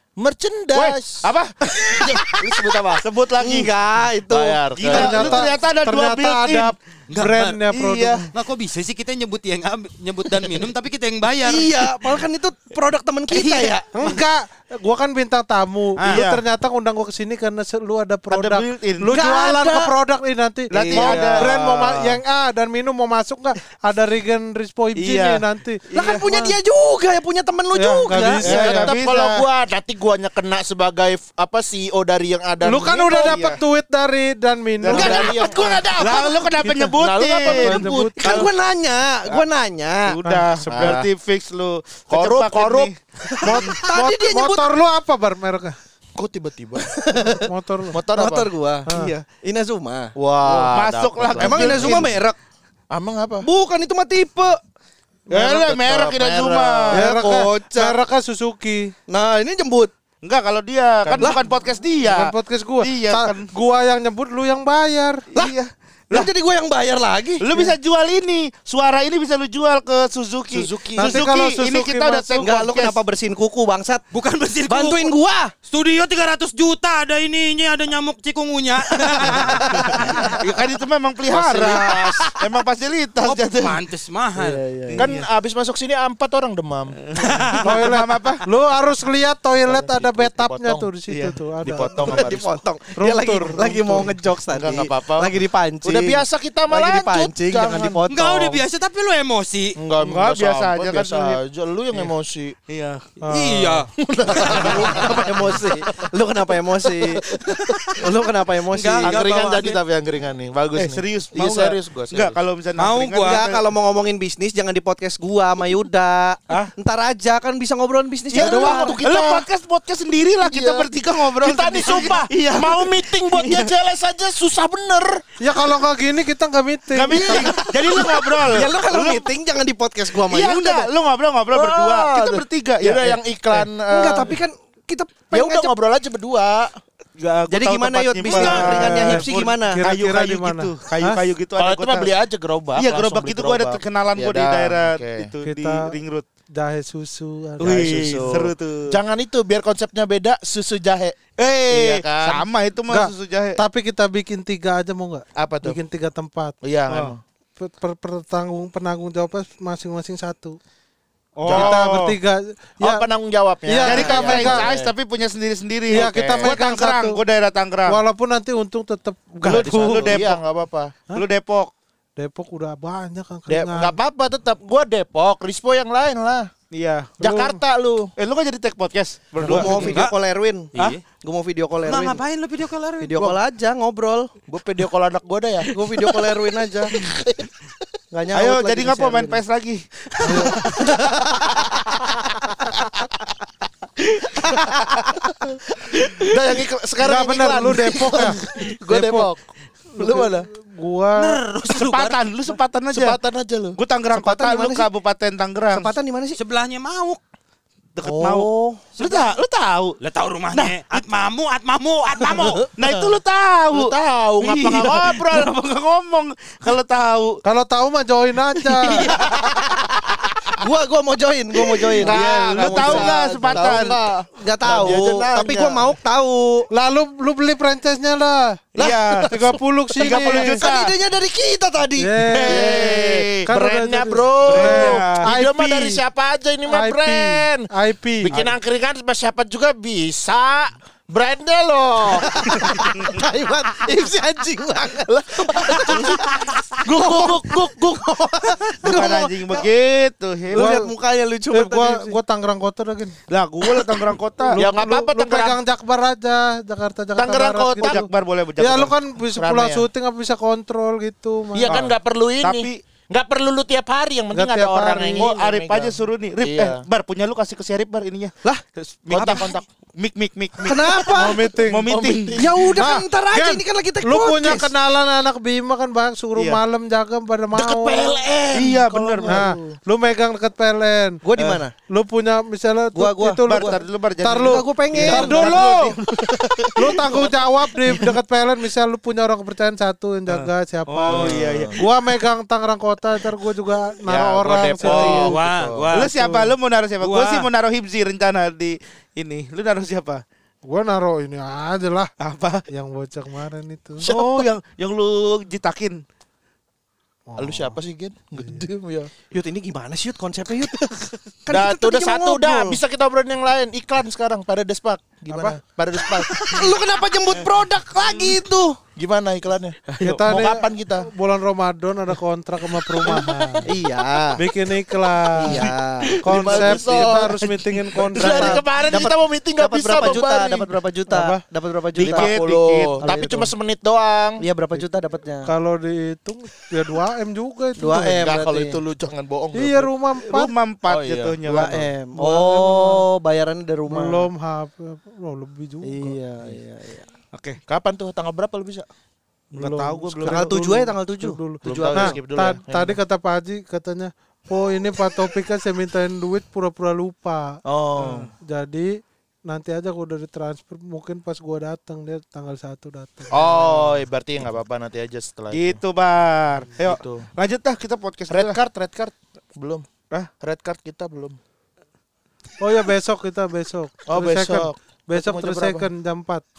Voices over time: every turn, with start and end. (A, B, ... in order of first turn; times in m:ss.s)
0:00.2-0:01.3 A
0:00.7-0:02.2 B
0:01.7-0:02.2 C
0:01.9-0:03.0 A
0:03.0-0:03.7 B
0:03.4-0:04.6 C
0:04.3-0:05.5 A
0:04.8-0:06.7 B
0:04.8-0:08.3 D
0:07.1-0:07.6 E
0:07.7-0:08.3 B
0:08.3-0:12.1 E
0:11.4-0:13.9 C
0:13.3-0:13.8 E
0:13.9-0:26.5 D
0:16.0-0:16.2 E
0:16.0-0:16.4 B
0:18.3-0:19.2 B
0:19.1-0:19.9 C
0:20.7-0:22.2 B
0:20.7-0:21.3 C
0:20.9-0:21.5 A
0:24.9-0:26.2 B
0:25.9-0:28.7 C
0:27.7-0:28.9 D
0:28.4-0:29.4 B
0:28.5-0:33.4 A
0:32.6-0:35.4 D
0:33.2-0:33.6 B
0:34.8-0:35.3 B
0:34.8-0:38.4 A
0:34.9-0:35.9 C
0:35.9-0:38.5 B
0:36.6-0:36.9 D
0:37.4-0:38.4 D
0:38.2-0:40.2 C
0:40.0-0:43.8 B
0:40.2-0:41.0 D
0:40.6-0:41.1 A
0:42.1-0:42.9 A
0:43.2-0:44.7 C
0:43.4-0:45.8 D
0:46.1-0:46.9 A
0:46.8-0:47.5 C
0:47.3-0:48.0 D
0:47.9-0:48.5 A
0:48.1-0:50.1 C
0:48.9-0:49.1 D
0:50.2-0:52.2 A
0:50.4-0:52.1 B
0:51.4-0:52.4 C
0:52.9-0:53.4 A
0:53.4-0:54.6 C
0:55.3-0:57.0 A
0:55.3-0:57.0 B
0:56.9-0:58.0 C
0:56.9-0:58.9 D
0:59.1-0:59.9 C
1:00.2-1:03.5 B
1:01.0-1:01.4 A
1:02.0-1:05.3 D
1:05.3-1:06.3 B
1:06.1-1:07.7 C
1:07.4-1:13.0 B
1:10.5-1:11.2 A
1:11.0-1:12.5 D
1:12.4-1:14.0 C
1:14.1-1:15.1 E
1:14.7-1:15.5 C
1:15.6-1:20.4 E
1:19.1-1:20.3 C
1:20.0-1:23.8 B
1:21.3-1:22.2 A
1:23.2-1:24.6 E
1:24.4-1:25.1 C
1:24.9-1:25.2 B
1:25.0-1:27.0 A
1:27.1-1:28.4 B
1:27.2-1:27.6 E
1:27.6-1:32.2 D
1:29.6-1:30.9 A
1:31.1-1:31.4 B
1:31.6-1:32.4 A
1:31.9-1:38.6 C
1:33.0-1:34.1 D
1:34.5-1:38.0 A
1:38.1-1:39.8 E
1:39.8-1:42.6 A
1:40.0-1:41.4 B
1:42.7-1:43.1 B
1:43.2-1:43.9 D
1:43.3-1:43.9 E
1:44.0-1:45.6 A
1:44.3-1:47.4 C
1:44.4-1:45.5 B
1:46.8-1:47.7 A
1:47.9-1:49.2 C
1:48.7-1:49.8 E
1:49.0-1:52.4 A
1:50.8-1:53.6 B
1:52.8-1:53.4 E
1:53.2-1:59.0 C
1:58.3-2:03.7 B
1:58.3-1:59.4 A
2:00.4-2:05.2 A
2:05.4-2:07.6 D
2:06.9-2:09.3 B
2:07.1-2:10.9 C
2:10.3-2:13.2 B
2:11.5-2:14.3 A
2:13.9-2:15.7 C
2:15.3-2:16.7 A
2:17.2-2:22.1 B
2:17.5-2:19.8 C
2:18.3-2:21.2 D
2:21.6-2:25.3 A
2:22.8-2:26.3 B
2:25.4-2:25.9 D
2:26.5-2:28.3 D
2:27.6-2:29.0 B
2:27.6-2:31.2 A
2:31.4-2:33.6 B
2:31.7-2:32.4 A
2:32.9-2:36.6 D
2:35.4-2:35.8 A
2:36.6-2:37.2 A
2:36.9-2:37.1 B
2:37.6-2:40.6 D
2:41.4-2:42.2 B
2:41.4-2:41.8 A
2:41.4-2:43.0 D
2:42.8-2:44.9 A
2:43.6-2:44.7 D
2:43.8-2:48.0 B
2:45.9-2:47.2 D
2:45.9-2:46.6 A
2:47.8-2:50.2 D
2:49.4-2:50.4 B
2:49.4-2:50.9 A
2:51.1-2:51.7 B
2:52.2-2:54.0 D
2:53.5-2:56.5 A
2:56.7-2:57.2 B
2:57.2-2:58.1 A
2:57.2-2:57.6 D
2:58.2-3:00.0 B
2:59.4-2:59.9 D
2:59.4-3:02.2 C
2:59.7-3:00.1 E
3:00.7-3:01.0 E
3:01.8-3:03.3 E
3:03.0-3:04.3 C
3:04.5-3:06.2 A
3:05.7-3:06.9 C
3:06.9-3:07.5 A
3:08.1-3:09.4 C
3:08.3-3:10.9 B
3:10.2-3:11.6 C
3:14.2-3:15.1 B
3:14.3-3:15.2 C
3:15.9-3:16.2 B
3:16.3-3:19.4 A
3:17.0-3:19.3 D
3:19.9-3:21.4 D
3:20.0-3:20.5 A
3:21.2-3:22.2 E
3:21.6-3:23.2 B
3:22.9-3:23.8 A
3:23.8-3:25.9 B
3:24.1-3:24.9 C
3:25.7-3:26.4 C
3:26.4-3:27.2 E
3:28.0-3:30.0 B
3:28.0-3:29.2 C
3:30.0-3:32.7 E
3:30.5-3:31.0 B
3:32.7-3:37.4 B
3:33.7-3:35.5 A
3:37.4-3:39.2 D
3:38.7-3:40.5 B
3:39.2-3:39.5 A
3:40.6-3:43.8 C
3:41.9-3:43.9 B
3:42.0-3:45.9 A
3:44.4-3:46.7 C
3:46.7-3:48.6 D
3:48.7-3:50.9 B
3:48.8-3:49.3 C
3:49.3-3:50.6 D
3:50.0-3:52.4 C
3:52.0-3:52.7 D
3:52.3-3:53.5 B
3:52.4-3:57.7 A
3:53.5-3:56.0 D
3:54.4-3:55.3 B
3:56.7-3:58.5 D
3:58.2-4:02.2 A
4:02.3-4:09.7 C
4:05.5-4:06.1 A
4:08.8-4:10.7 B
4:10.5-4:12.2 C
4:10.5-4:10.9 D
4:11.5-4:13.2 D
4:13.3-4:14.6 B
4:14.5-4:21.8 D
4:14.6-4:15.6 A
4:17.2-4:18.0 A
4:17.8-4:19.0 B
4:19.3-4:19.9 A
4:21.5-4:26.8 A
4:21.7-4:22.8 B
4:24.3-4:25.3 D
4:25.2-4:31.1 B
4:29.1-4:29.6 A
4:29.2-4:29.4 C
4:30.7-4:31.5 C
4:31.1-4:32.0 D
4:31.6-4:32.4 B
4:31.8-4:32.7 A
4:32.3-4:34.7 C
4:32.7-4:38.2 D
4:36.4-4:36.6 B
4:37.5-4:39.8 A
4:38.5-4:39.5 B
4:39.2-4:41.2 D
4:41.2-4:41.7 C
4:41.4-4:41.6 B
4:41.8-4:46.0 D
4:42.9-4:43.8 C
4:43.4-4:46.0 B
4:44.4-4:45.9 C
4:45.2-4:46.9 A
4:46.7-4:47.2 B
4:46.8-4:55.4 D
4:50.3-4:52.0 B
4:51.0-4:51.8 A
4:54.1-4:55.9 A
4:54.8-4:55.3 B
4:55.0-4:56.5 E
4:55.9-5:00.2 B
4:57.0-4:57.5 E
5:00.6-5:02.1 D
5:02.2-5:02.6 B
5:02.7-5:04.1 D
5:04.0-5:04.4 A
5:04.0-5:06.0 B
5:07.3-5:07.8 D
5:07.4-5:09.1 A
5:08.4-5:08.6 D
5:09.3-5:12.8 C
5:11.5-5:16.7 A
5:15.3-5:15.6 D
5:16.1-5:18.8 C
5:17.4-5:18.3 B
5:19.0-5:21.1 A
5:20.0-5:23.7 D
5:23.0-5:23.6 A
5:23.6-5:24.4 C
5:24.4-5:25.7 D
5:25.3-5:26.1 C
5:26.2-5:28.7 D
5:26.2-5:28.4 B
5:26.3-5:27.4 A
5:28.1-5:30.8 A
5:28.4-5:32.3 C
5:31.1-5:31.4 D
5:32.0-5:33.0 B
5:32.0-5:34.4 A
5:33.0-5:33.5 C
5:34.4-5:35.5 C
5:35.4-5:38.3 D
5:37.8-5:38.8 C
5:38.2-5:39.9 A
5:39.5-5:40.5 D
5:40.2-5:41.9 B
5:40.9-5:41.8 A
5:41.4-5:44.3 C
5:42.2-5:43.0 D
5:43.9-5:46.2 D
5:45.8-5:47.1 C
5:47.3-5:47.6 B
5:47.7-5:48.8 A
5:49.5-5:57.6 D
5:49.5-5:50.5 B
5:50.3-5:52.2 C
5:51.6-5:53.0 A
5:57.6-5:58.3 A
5:58.0-5:58.3 B
5:58.3-6:03.8 D
6:03.3-6:05.8 A
6:05.5-6:08.6 B
6:06.8-6:07.3 A
6:08.3-6:09.8 A
6:10.4-6:11.4 A
6:12.6-6:16.4 D
6:14.1-6:15.9 A